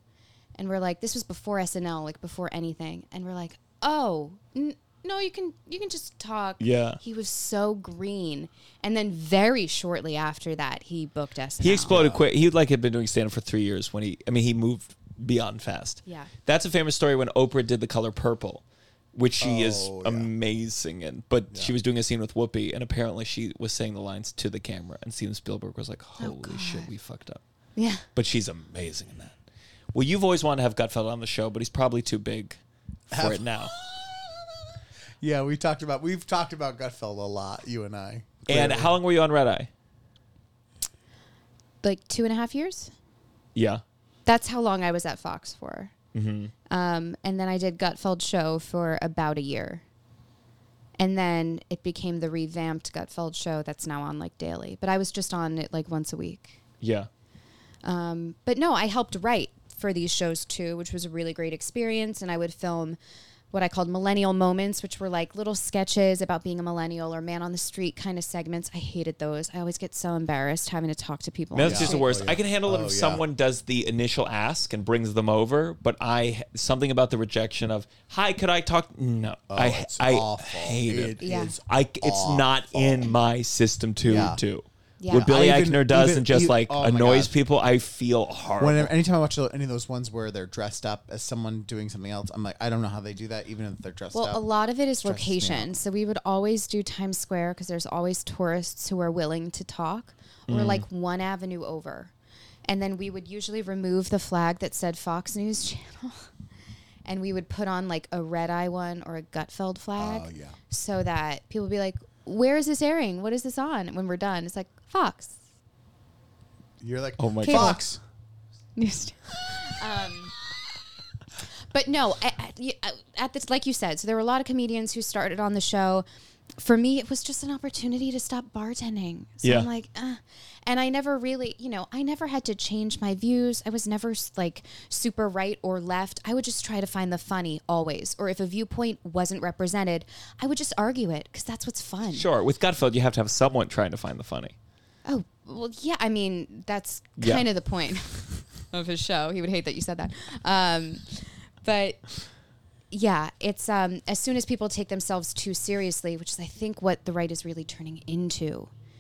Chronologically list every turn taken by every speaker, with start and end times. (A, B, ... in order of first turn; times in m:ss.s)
0:00.6-0:12.0 A
0:06.6-0:07.0 B
0:11.6-0:18.6 B
0:11.9-0:12.2 C
0:19.1-0:27.4 B
0:19.4-0:20.3 C
0:26.2-0:26.9 A
0:27.8-0:28.0 A
0:28.2-0:29.4 B
0:29.9-0:33.7 B
0:33.1-0:34.4 C
0:35.2-0:38.9 C
0:38.5-0:39.7 B
0:41.8-0:42.9 A
0:43.6-0:43.8 B
0:44.3-0:45.9 A
0:46.1-0:46.5 B
0:46.7-0:49.8 A
0:51.0-0:56.6 A
0:56.8-0:57.1 B
0:57.8-1:03.0 A
1:03.5-1:12.1 A
1:11.5-1:28.9 B
1:11.6-1:13.2 C
1:19.5-1:23.1 C
1:21.2-1:21.6 A
1:24.0-1:24.4 C
1:25.0-1:25.3 A
1:25.1-1:27.3 C
1:28.6-1:34.4 C
1:34.1-1:42.1 A
1:35.0-1:35.7 C
1:40.5-1:40.8 B
1:42.7-1:46.3 A
1:47.0-1:55.4 A
1:50.0-1:50.6 C
1:56.8-1:58.0 C
1:57.2-1:57.8 B
1:57.4-1:57.8 A
1:58.8-2:00.3 A
2:01.7-2:06.0 A
2:06.6-2:22.3 A
2:09.4-2:09.7 B
2:22.1-2:24.6 B
2:25.0-2:32.0 A
2:27.2-2:27.4 B
2:32.9-2:38.7 A